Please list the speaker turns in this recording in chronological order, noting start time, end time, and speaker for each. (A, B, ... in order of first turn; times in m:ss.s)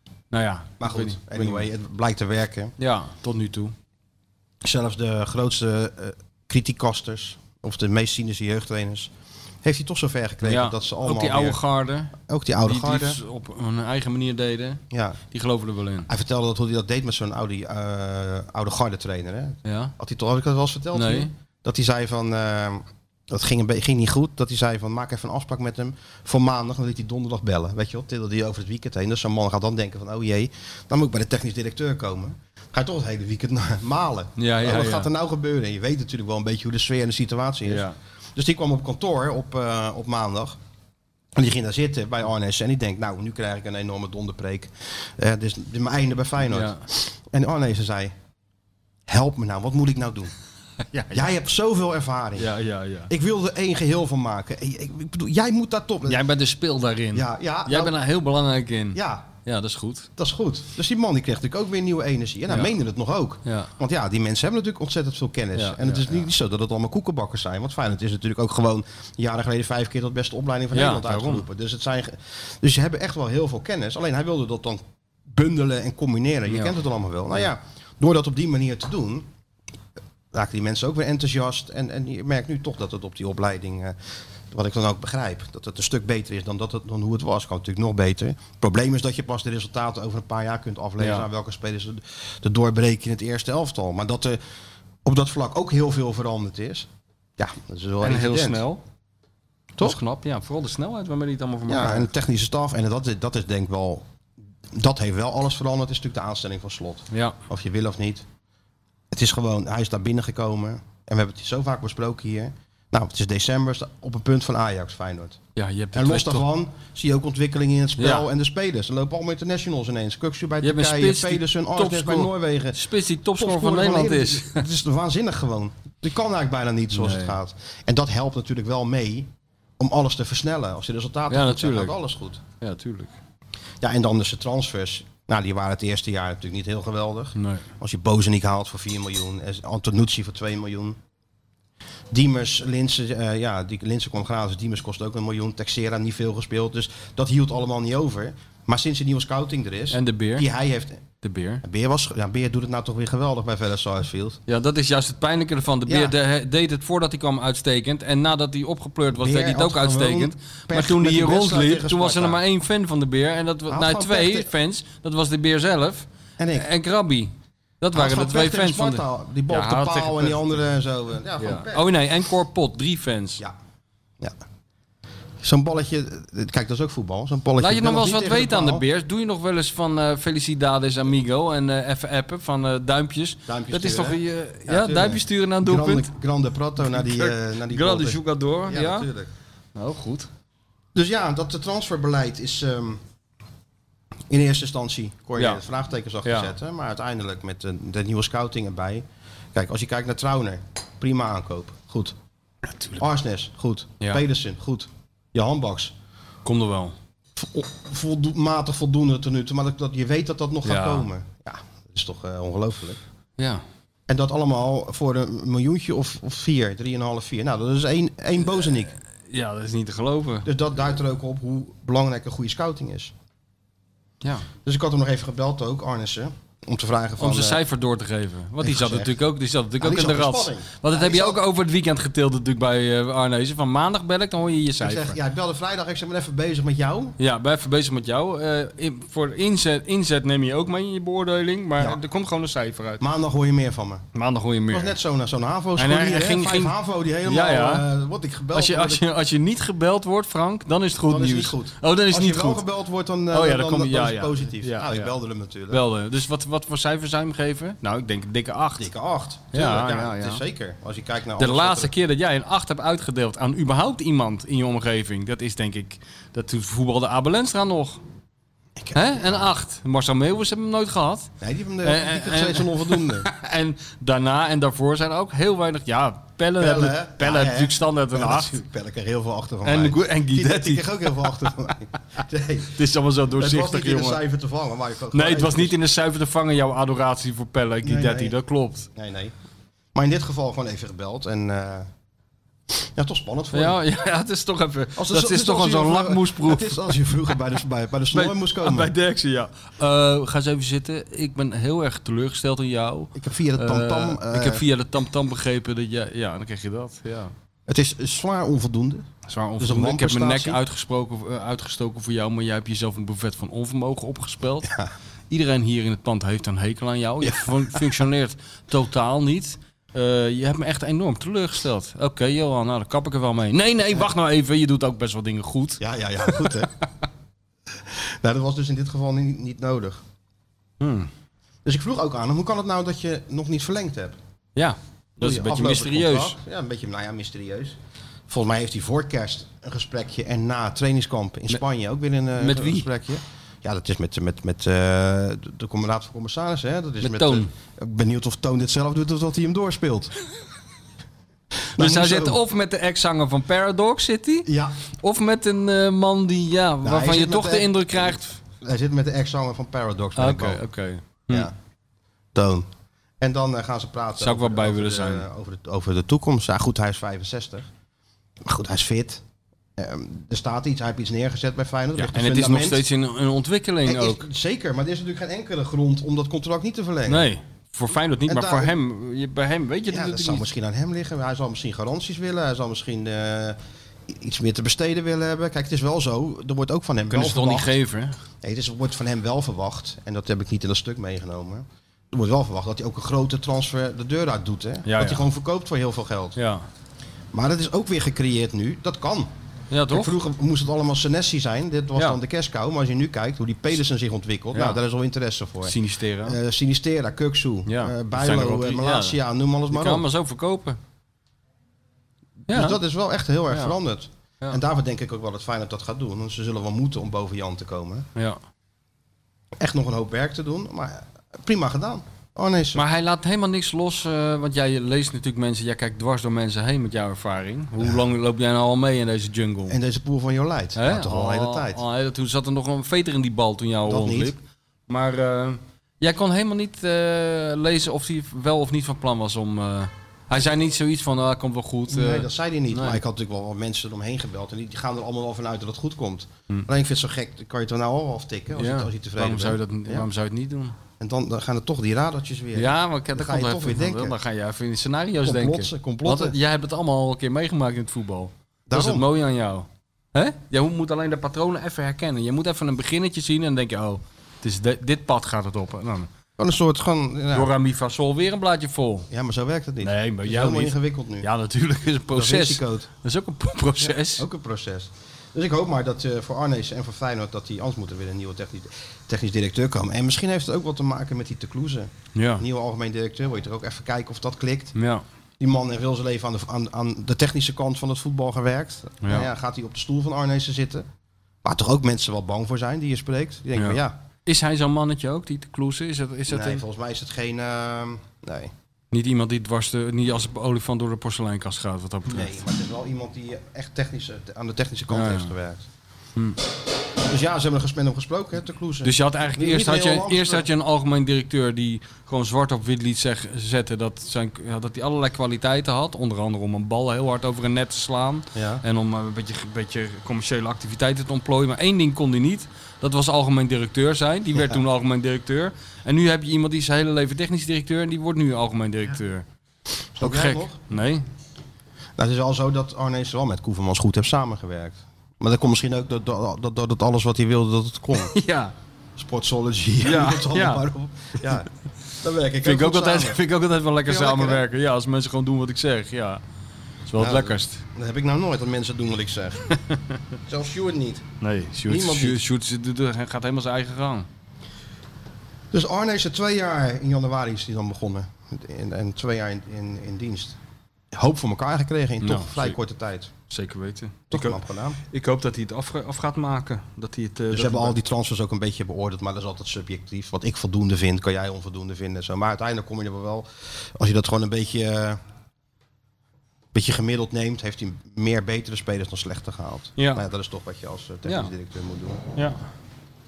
0:00.3-0:01.7 A
0:00.8-0:02.7 B
0:02.8-0:03.7 A
0:04.6-0:09.1 B
0:09.6-0:11.6 B
0:10.4-0:16.1 A
0:12.2-0:13.2 B
0:14.9-0:15.2 B
0:16.1-0:40.6 B
0:19.6-0:19.9 A
0:20.9-0:21.3 A
0:34.4-0:35.1 A
0:37.6-0:38.0 A
0:41.4-0:48.1 B
0:46.5-0:46.8 A
0:49.1-0:50.3 B
0:50.9-0:51.3 A
0:51.1-0:52.5 B
0:52.4-0:53.1 A
0:53.1-0:56.2 B
0:56.0-1:00.1 A
0:57.1-0:58.0 B
0:58.9-0:59.3 B
1:00.2-1:19.3 B
1:05.6-1:06.2 A
1:10.7-1:11.4 A
1:16.5-1:16.7 A
1:20.3-1:24.0 B
1:24.5-1:34.4 B
1:31.0-1:31.3 A
1:35.0-1:38.6 B
1:38.0-1:38.8 A
1:39.8-1:42.1 A
1:41.7-1:44.0 B
1:44.7-1:48.2 B
1:47.1-1:47.4 A
1:49.1-1:55.4 B
1:55.6-1:56.5 A
1:55.9-2:02.8 B
1:58.0-1:58.3 A
2:00.6-2:04.7 A
2:03.4-2:12.4 B
2:07.0-2:07.4 A
2:11.3-2:12.0 A
2:12.6-2:13.1 A
2:13.8-2:21.0 B
2:17.4-2:17.7 A
2:22.1-2:31.0 B
2:29.9-2:30.5 A
2:31.2-2:31.6 A
2:31.6-2:34.4 B
2:34.5-2:50.5 A
2:35.9-2:36.1 B
2:39.1-2:42.4 B
2:43.7-2:44.5 B
2:46.4-2:46.7 B
2:47.9-2:51.9 B
2:51.4-2:53.4 A
2:55.4-2:58.8 B
2:57.6-3:06.1 A
3:03.5-3:09.3 B
3:06.8-3:09.1 A
3:09.8-3:10.3 A
3:10.9-3:13.0 B
3:14.3-3:22.2 B
3:15.4-3:15.6 A
3:16.2-3:16.5 A
3:22.7-3:23.0 A
3:23.0-3:26.0 B
3:26.4-3:27.0 A
3:27.4-3:33.0 B
3:30.6-3:31.1 A
3:33.4-3:33.6 A
3:34.1-3:39.0 B
3:39.3-3:40.5 A
3:40.4-3:43.1 B
3:44.2-3:44.5 A
3:44.6-3:47.6 B
3:47.2-3:55.2 A
3:48.6-3:49.1 B
3:49.8-3:51.4 B
3:54.8-3:57.2 B
3:57.2-4:03.0 A
4:03.0-4:04.0 B
4:04.1-4:05.0 A
4:04.7-4:09.0 B
4:05.8-4:07.9 A
4:08.5-4:12.6 A
4:11.1-4:15.8 B
4:13.3-4:15.1 A
4:15.7-4:18.9 A
4:18.8-4:21.9 B
4:19.5-4:20.4 A
4:21.4-4:28.0 A
4:28.8-4:29.5 B
4:28.9-4:31.3 A
4:31.4-4:33.3 B
4:31.8-4:38.6 A
4:36.6-4:42.8 B
4:39.6-4:40.9 A
4:42.7-4:44.2 A
4:43.4-4:45.8 B
4:45.1-4:48.9 A
4:47.8-4:48.4 B
4:49.0-4:49.3 B
4:49.9-4:51.9 B
4:52.7-4:53.8 B
4:53.5-4:57.0 A
4:55.0-4:58.9 B
4:58.1-5:07.3 A
5:03.2-5:04.6 B
5:07.7-5:09.1 B
5:09.3-5:14.7 A
5:09.6-5:10.6 B
5:14.6-5:14.9 B
5:15.3-5:26.6 A
5:17.2-5:17.8 B
5:25.8-5:26.7 B
5:27.8-5:30.0 B
5:30.8-5:31.1 A
5:31.6-5:34.2 B
5:34.6-5:36.4 A
5:35.2-5:37.8 B
5:38.3-5:50.2 B
5:42.4-5:42.9 A
5:47.0-5:47.5 A
5:51.8-5:52.4 B
5:51.8-5:54.5 A
5:54.5-5:54.8 B
5:55.0-5:58.4 A
5:56.8-6:00.6 B
6:00.2-6:01.5 A
6:02.3-6:02.7 B
6:03.2-6:07.7 B
6:04.2-6:05.3 A
6:08.4-6:09.2 B
6:09.8-6:12.8 B
6:12.0-6:14.3 A
6:13.8-6:17.3 B
6:17.1-6:20.5 A
6:18.3-6:18.7 B
6:19.9-6:27.7 B
6:27.1-6:28.2 A
6:28.4-6:36.4 B
6:34.9-6:35.3 A
6:36.4-6:36.7 A
6:37.3-6:39.3 B
6:39.7-6:40.2 A
6:39.9-6:50.0 B
6:44.5-6:44.8 A
6:45.6-6:46.4 A
6:47.7-6:49.2 A
6:49.7-6:50.8 A
6:52.5-6:58.1 B
6:52.5-6:52.8 A
6:53.5-6:53.8 A
6:59.6-7:02.8 B
7:02.8-7:09.8 A
7:09.7-7:11.8 B
7:10.8-7:23.0 A
7:13.9-7:14.3 B
7:21.9-7:30.1 B
7:28.6-7:30.8 A
7:31.0-7:34.2 B
7:32.6-7:46.1 A
7:35.2-7:36.4 B
7:38.7-7:39.1 B
7:46.4-7:47.5 B
7:47.3-7:49.1 A
7:49.1-7:51.3 B
7:49.8-7:54.3 A
7:52.1-7:52.9 B
7:53.8-8:04.7 B
8:02.2-8:02.4 A
8:04.8-8:05.0 A
8:05.4-8:10.9 B
8:09.0-8:09.3 A
8:11.4-8:14.0 B
8:13.6-8:16.6 A
8:16.3-8:18.5 B
8:18.9-8:22.4 A
8:22.1-8:25.7 B
8:24.9-8:25.3 A
8:27.0-8:30.5 B
8:28.8-8:49.2 A
8:38.4-8:38.6 B
8:50.0-8:50.6 B
8:50.0-8:51.0 A
8:52.0-8:58.1 B
8:58.0-8:58.5 A
8:59.0-9:01.5 B
8:59.8-9:00.6 A
9:02.0-9:03.2 B
9:02.4-9:06.2 A
9:03.8-9:04.4 B
9:06.9-9:07.6 A
9:07.0-9:09.5 B
9:10.3-9:11.0 B
9:11.2-9:14.1 A
9:11.7-9:12.2 B
9:15.5-9:20.4 B
9:20.9-9:23.1 B
9:22.0-9:22.6 A
9:23.3-9:27.8 A
9:24.1-9:24.8 B
9:27.3-9:35.0 B
9:36.5-9:42.0 B
9:39.8-9:40.0 A
9:41.0-9:41.3 A